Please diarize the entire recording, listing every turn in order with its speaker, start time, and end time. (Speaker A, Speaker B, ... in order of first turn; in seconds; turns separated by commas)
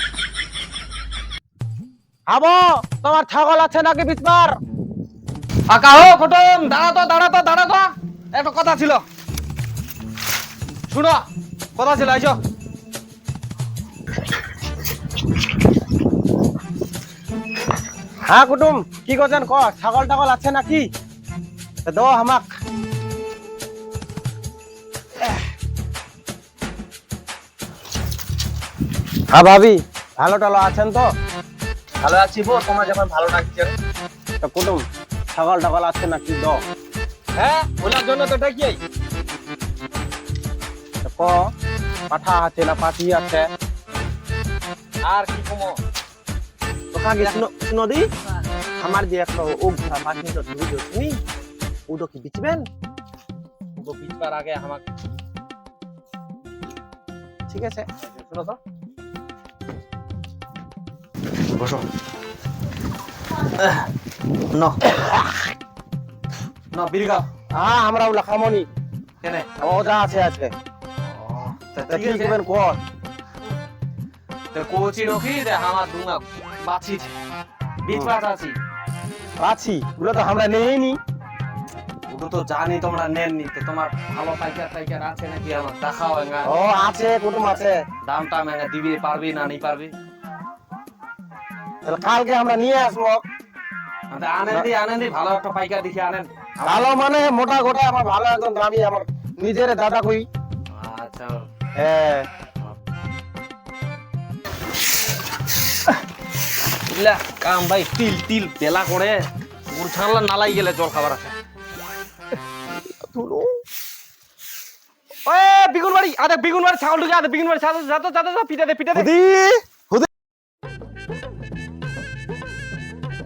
Speaker A: 2.3-4.6, Speaker B: 5.7-9.0, Speaker B: 10.9-12.4, Speaker A: 18.3-20.9, Speaker A: 21.9-22.5, Speaker A: 29.3-31.1, Speaker B: 32.0-33.7, Speaker A: 34.4-36.6, Speaker B: 37.4-38.8, Speaker A: 41.0-41.5, Speaker A: 42.1-43.5, Speaker B: 45.0-45.8, Speaker A: 46.9-48.1, Speaker A: 48.8-51.2, Speaker A: 51.9-52.7, Speaker B: 53.8-54.9, Speaker A: 57.5-57.9, Speaker B: 58.0-58.6, Speaker B: 61.5-61.9, Speaker B: 63.5-63.9, Speaker B: 64.5-64.9, Speaker B: 66.7-67.3, Speaker A: 67.5-68.7, Speaker B: 69.2-69.5, Speaker A: 69.6-70.5, Speaker B: 71.1-72.3, Speaker A: 71.9-72.8, Speaker B: 74.5-77.1, Speaker B: 77.8-78.6, Speaker A: 79.4-81.0, Speaker B: 82.1-86.6, Speaker A: 86.4-87.8, Speaker B: 88.0-89.9, Speaker A: 91.8-93.2, Speaker B: 94.1-96.9, Speaker A: 96.6-100.3, Speaker B: 100.7-101.5, Speaker A: 101.8-102.3, Speaker B: 106.9-111.3, Speaker A: 113.1-113.6, Speaker B: 115.2-119.1, Speaker A: 118.9-120.1